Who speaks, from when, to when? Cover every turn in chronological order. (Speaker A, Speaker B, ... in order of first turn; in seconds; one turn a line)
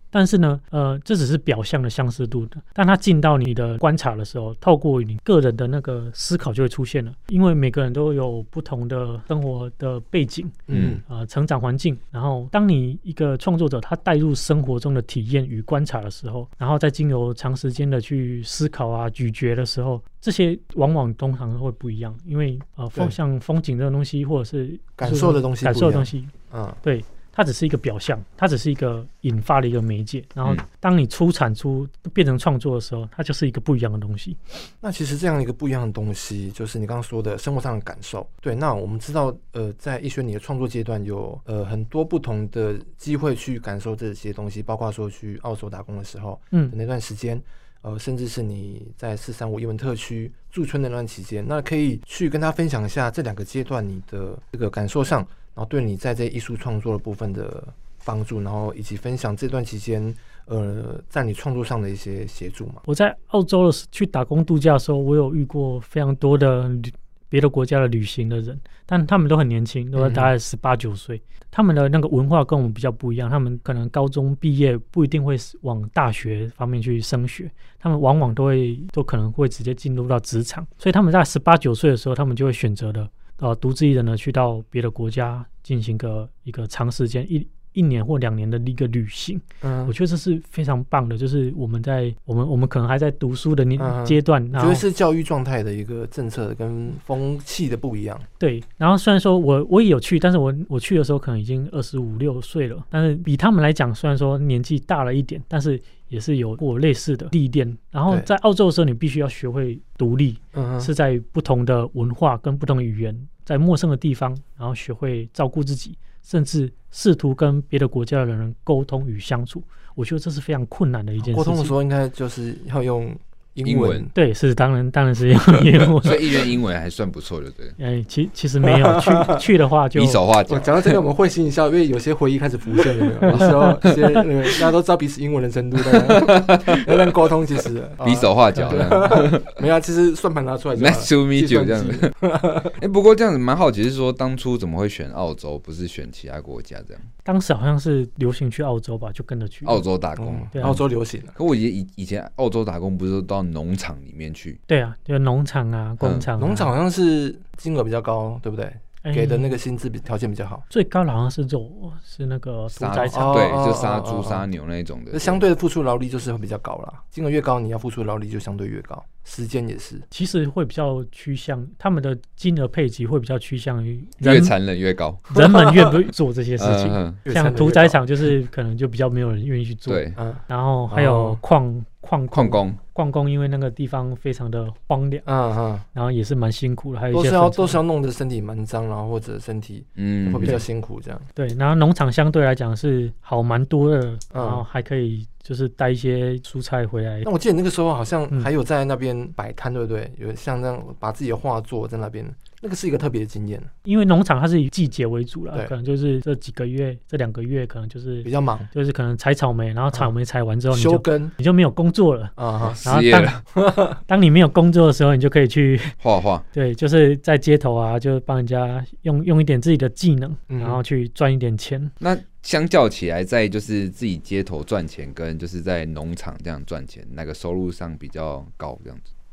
Speaker A: 0.1-34.4
Speaker B: 10.7-11.0
Speaker C: 10.7-11.0
Speaker B: 25.0-26.8
Speaker B: 34.8-62.8
Speaker A: 62.9-94.8
Speaker B: 70.0-70.3
Speaker B: 89.6-89.9
Speaker B: 93.8-98.2
Speaker A: 98.4-121.7
Speaker B: 110.5-110.9
Speaker B: 121.2-124.1
Speaker C: 123.6-124.1
Speaker A: 124.1-126.5
Speaker C: 125.8-127.8
Speaker A: 127.8-130.2
Speaker B: 128.6-129.4
Speaker C: 129.9-131.0
Speaker B: 130.5-142.8
Speaker C: 133.3-134.0
Speaker A: 133.4-133.8
Speaker C: 135.9-137.1
Speaker C: 138.0-139.6
Speaker C: 140.8-142.1
Speaker C: 142.8-147.1
Speaker A: 147.2-149.8
Speaker C: 149.6-150.8
Speaker B: 150.2-151.3
Speaker A: 150.5-150.8
Speaker C: 151.3-154.6
Speaker A: 154.7-156.7
Speaker C: 156.0-156.3
Speaker B: 156.4-160.6
Speaker A: 159.0-159.6
Speaker A: 160.7-163.6
Speaker C: 162.7-165.4
Speaker B: 163.1-164.5
Speaker B: 165.1-170.1
Speaker A: 170.1-174.5
Speaker C: 174.2-175.4
Speaker A: 175.3-185.3
Speaker C: 176.6-177.2
Speaker B: 177.2-178.0
Speaker C: 179.9-180.2
Speaker B: 180.2-181.4
Speaker C: 182.3-182.8
Speaker B: 185.2-185.8
Speaker A: 185.9-187.8
Speaker B: 187.1-191.3
Speaker C: 190.0-190.6
Speaker A: 191.3-197.3
Speaker B: 194.3-194.6
Speaker B: 197.2-203.7
Speaker A: 203.8-213.4
Speaker B: 208.2-208.7
Speaker B: 210.7-211.3
Speaker B: 212.4-212.8
Speaker C: 212.6-213.4
Speaker B: 213.5-214.0
Speaker A: 214.0-216.0
Speaker C: 216.0-216.4
Speaker A: 216.5-221.9
Speaker B: 220.5-220.8
Speaker C: 222.0-229.1